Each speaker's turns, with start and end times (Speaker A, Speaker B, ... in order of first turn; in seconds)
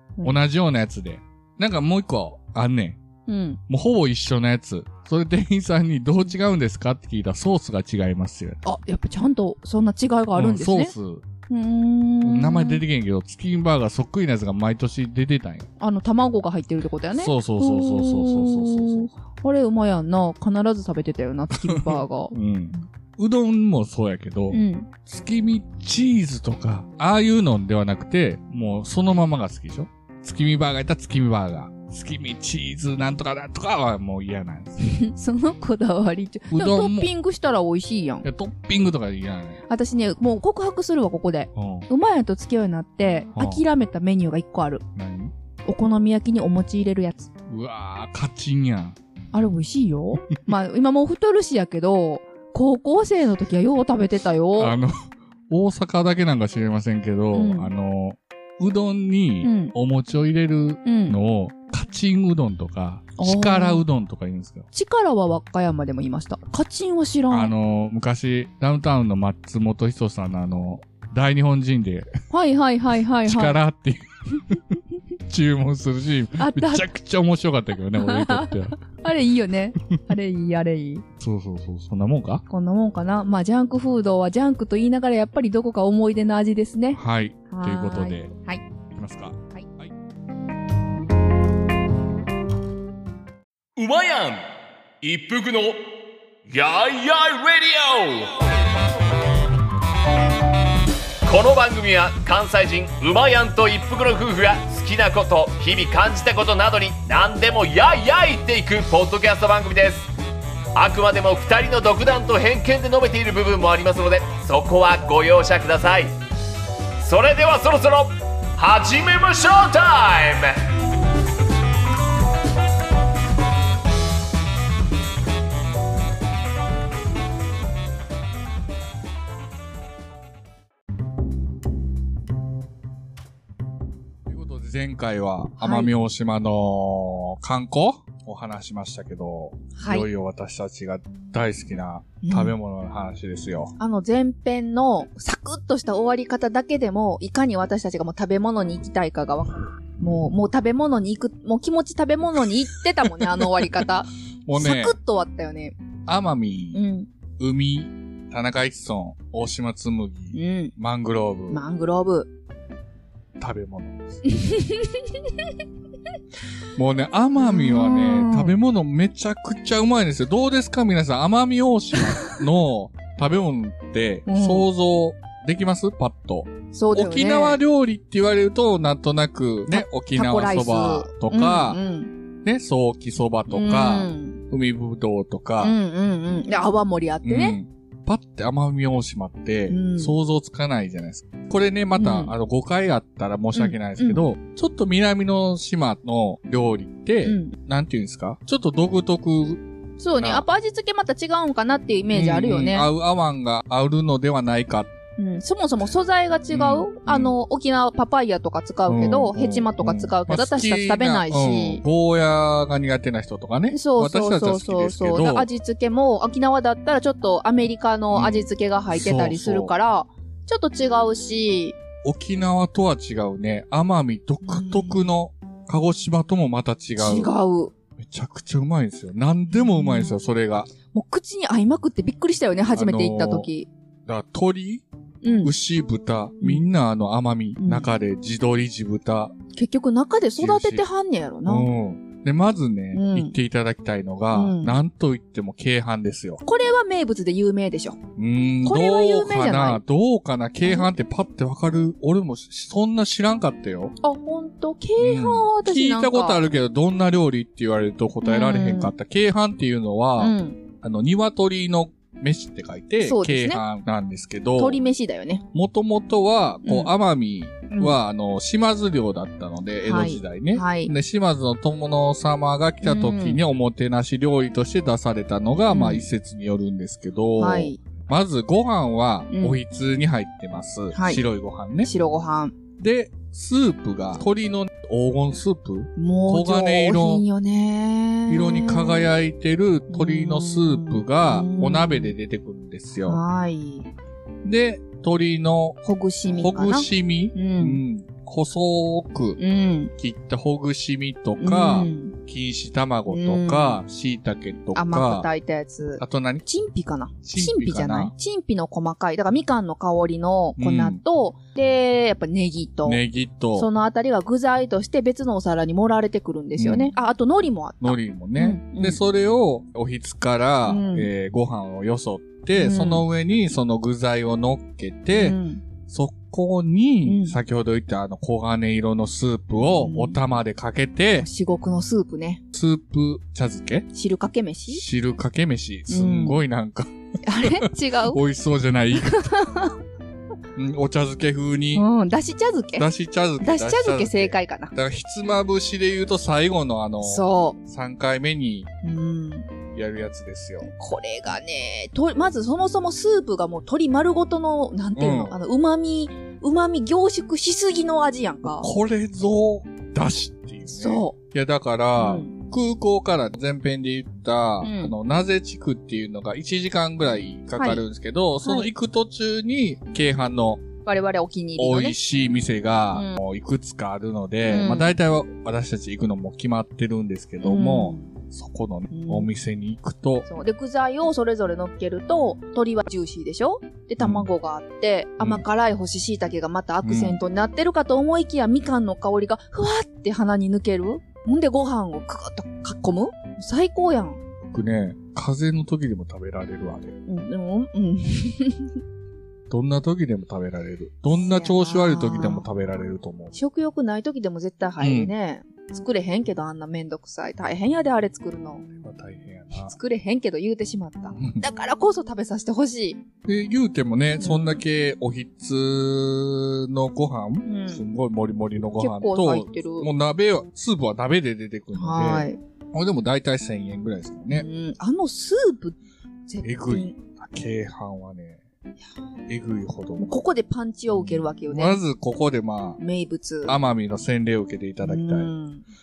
Speaker A: 0.2-3.0, 3.7-8.6, 10.3-11.2, 12.2-15.7, 17.1-19.1, 21.5-35.0, 36.5-37.1, 38.2-39.6, 41.5-41.9, 43.3-43.6, 45.0-45.3, 47.5-49.0, 54.6-64.7, 67.3-72.1, 73.2-74.7, 75.3-78.8, 81.2-82.4, 86.9-88.3, 88.9-89.9, 134.2-143.7, 150.0-150.3, 153.0-153.8, 154.4-154.9, 156.1-156.8, 157.4-161.6, 163.4-164.3, 166.8-181.8, 182.4-185.7, 187.2-199.6, 200.2-200.4, 202.1-204.9, 206.5-207.3, 208.9-215.5, 218.1-219.7, 222.0-227.3, 228.0-230.7, 232.7-233.5, 234.1-234.8, 235.4-239.3, 240.4-240.8, 241.4-246.4, 248.2-253.9, 255.0-264.8, 265.5-281.9, 282.8-287.2, 288.3-293.2, 294.4-299.4, 300.0-305.3, 306.0-306.4, 307.2-308.1, 310.6-311.0, 312.8-313.7, 316.6-316.9, 317.8-331.3, 332.5-333.9, 334.7-339.5, 340.6-341.9, 342.8-348.7, 349.7-350.7, 354.9-355.4, 358.4-370.6, 371.6-380.3, 384.0-384.3, 386.8-387.2, 394.4-396.9, 399.5-403.3, 404.8-405.1, 408.7-409.7, 411.1-411.4, 413.2-424.5, 426.4-428.4, 429.3-430.1, 430.9-432.8, 433.4-435.3
Speaker B: 3.3-3.6, 8.6-10.9, 11.5-12.8, 15.8-22.8, 24.5-24.9, 34.8-38.2, 39.7-44.8, 45.6-47.3, 49.3-54.8, 57.3-57.7, 59.4-59.7, 60.8-61.2, 63.2-63.8, 64.7-67.5, 72.3-73.6, 76.4-76.9, 78.0-81.0, 82.5-88.6, 135.6-135.9, 139.7-140.1, 142.2-142.5, 143.8-155.8, 156.7-157.1, 160.3-160.7, 161.5-162.3, 164.2-165.5, 167.4-168.5, 174.3-174.7, 176.7-177.6, 179.7-182.1, 183.5-184.4, 185.6-187.6, 189.7-190.1, 191.9-192.3, 193.5-194.2, 197.2-197.5, 200.0-202.9, 205.2-211.8, 213.7-221.8, 224.4-225.1, 227.0-227.7, 229.5-230.1, 230.9-233.7, 235.2-235.5, 237.6-237.9, 239.5-241.7, 242.9-243.3, 244.3-244.8, 246.4-248.0, 248.6-249.8, 250.6-250.9, 254.0-256.4, 258.2-258.9, 260.2-260.6, 263.0-263.6, 264.6-265.4, 266.6-266.9, 267.7-267.9, 269.8-270.9, 272.8-273.4, 275.7-276.1, 277.4-277.8, 279.3-279.6, 280.9-281.2, 281.8-282.6, 285.9-289.1, 289.9-292.1, 293.0-293.9, 295.8-297.8, 299.4-299.9, 301.4-302.1, 303.1-303.8, 304.7-313.0, 313.5-319.0, 320.6-321.1, 322.5-323.0, 325.1-325.6, 327.0-327.4, 329.6-330.2, 331.2-332.4, 333.9-334.8, 335.9-336.4, 337.2-338.2, 338.9-339.8, 341.7-342.9, 343.4-344.7, 347.0-347.6, 348.8-349.5, 350.7-358.7, 360.7-361.1, 362.0-362.3, 364.6-364.9, 367.6-367.8, 368.4-368.7, 370.8-372.0, 372.9-373.2, 374.5-374.9, 377.4-378.1, 378.9-379.3, 380.2-394.2, 397.1-398.8, 401.1-402.4, 403.3-408.6, 409.5-413.0, 414.2-414.6, 417.4-417.8, 418.8-419.9, 421.7-422.4, 424.3-427.0, 430.0-431.8, 432.8-433.6, 434.8-435.6
Speaker C: 93.8-94.4, 95.0-95.8, 96.5-98.5, 101.2-110.1, 110.7-116.1, 117.0-120.6